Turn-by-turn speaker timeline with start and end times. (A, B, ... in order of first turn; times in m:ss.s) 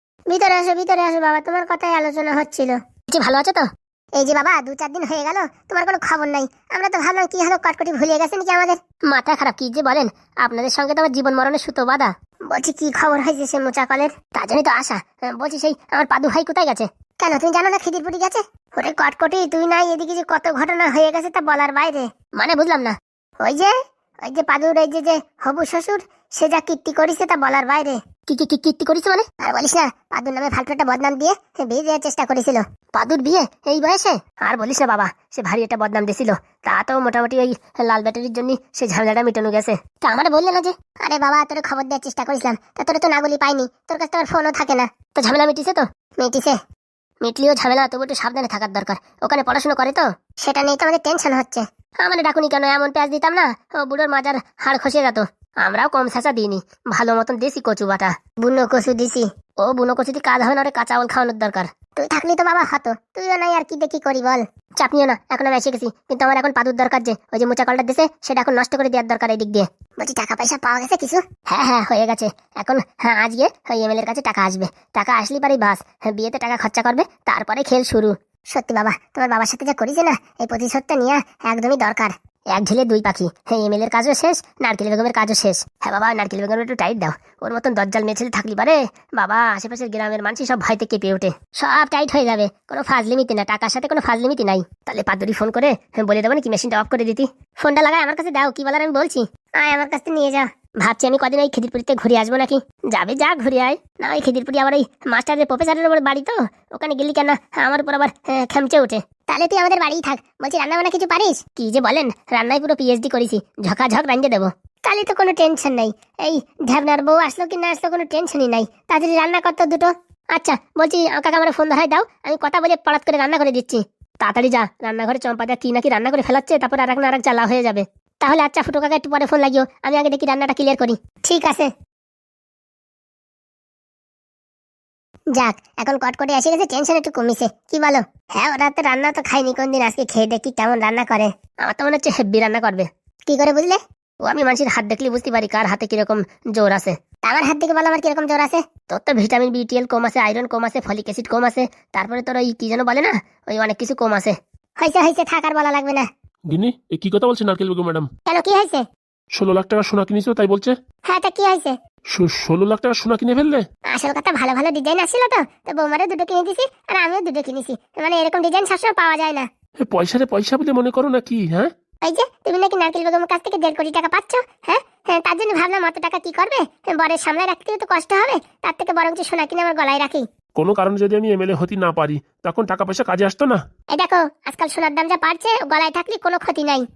0:00.3-0:03.6 A
0:04.2-0:23.7 A
0:24.2-0:46.6 A
0:47.2-2:11.7 A
2:15.3-2:36.0 A
2:36.5-2:38.1 B
2:38.3-2:38.8 A
2:39.3-2:40.7 B
2:41.1-2:41.8 A
2:42.1-2:43.6 B
2:43.9-2:49.5 A
2:49.9-2:51.7 B
2:52.0-3:00.2 A
3:00.6-3:03.6 B
3:03.9-3:06.8 A